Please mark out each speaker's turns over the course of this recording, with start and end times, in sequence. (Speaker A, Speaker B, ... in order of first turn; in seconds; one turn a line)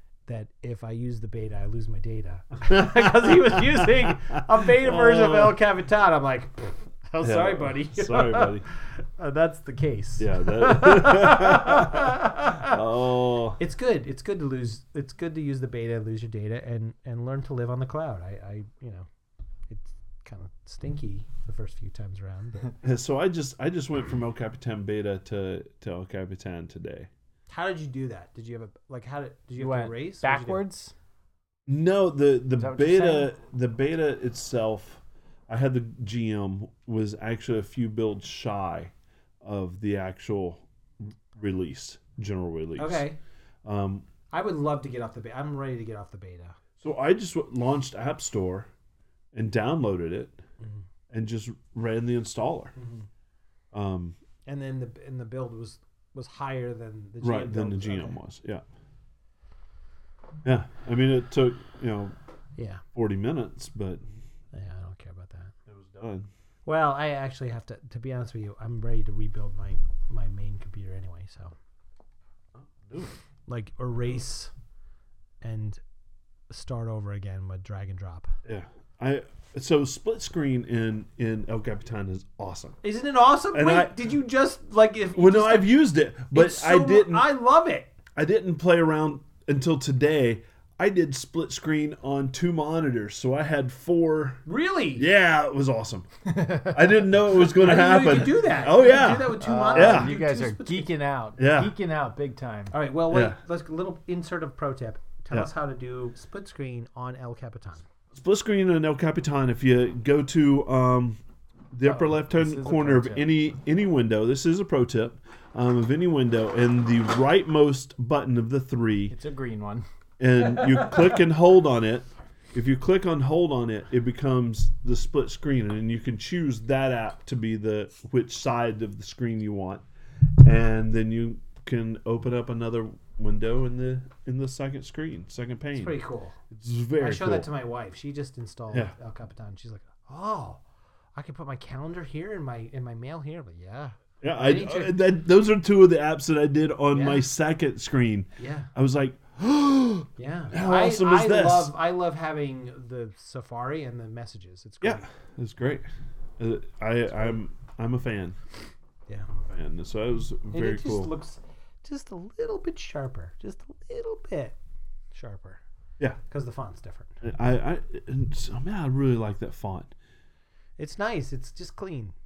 Speaker A: 0.3-12.8
Speaker B: 2.7-5.5
Speaker B: 7.2-8.6
Speaker B: 10.2-12.1
Speaker B: 12.7-13.6
Speaker A: 13.6-19.1
Speaker A: 19.7-22.8
Speaker B: 22.8-27.1
Speaker A: 27.5-30.6
Speaker C: 29.6-30.9
Speaker B: 31.7-43.0
Speaker C: 32.6-33.3
Speaker A: 42.8-43.2
Speaker B: 43.6-44.0
Speaker A: 44.3-46.6
Speaker B: 46.8-48.7
Speaker B: 49.3-50.4
Speaker B: 51.1-52.7
Speaker A: 52.8-53.1
Speaker B: 53.7-54.1
Speaker A: 54.5-58.2
Speaker B: 57.2-58.6
Speaker B: 60.4-62.1
Speaker A: 62.5-62.8
Speaker B: 62.9-64.0
Speaker A: 64.5-65.5
Speaker B: 65.7-66.3
Speaker A: 66.7-71.5
Speaker B: 72.5-73.1
Speaker A: 73.5-74.5
Speaker A: 75.4-75.8
Speaker A: 76.5-78.3
Speaker B: 78.4-82.8
Speaker A: 82.8-85.8
Speaker B: 83.5-84.0
Speaker B: 85.1-87.2
Speaker A: 86.3-87.9
Speaker B: 88.1-94.4
Speaker A: 94.5-95.1
Speaker B: 95.0-96.1
Speaker C: 96.2-96.9
Speaker B: 96.7-100.1
Speaker A: 97.5-100.9
Speaker C: 99.0-102.7
Speaker B: 101.4-101.7
Speaker A: 102.7-107.8
Speaker B: 103.1-103.4
Speaker B: 108.1-111.2
Speaker B: 111.7-119.1
Speaker C: 111.8-113.3
Speaker C: 119.1-119.8
Speaker B: 120.2-129.8
Speaker A: 120.6-121.1
Speaker B: 130.4-135.9
Speaker A: 135.7-136.4
Speaker B: 136.5-137.5
Speaker A: 137.0-140.6
Speaker A: 141.2-145.0
Speaker B: 144.2-151.7
Speaker A: 146.9-147.2
Speaker A: 148.4-148.7
Speaker A: 150.2-155.1
Speaker B: 154.8-158.4
Speaker B: 159.4-161.1
Speaker A: 160.5-164.6
Speaker A: 165.1-165.6
Speaker A: 166.3-167.2
Speaker B: 167.2-169.9
Speaker A: 170.8-172.1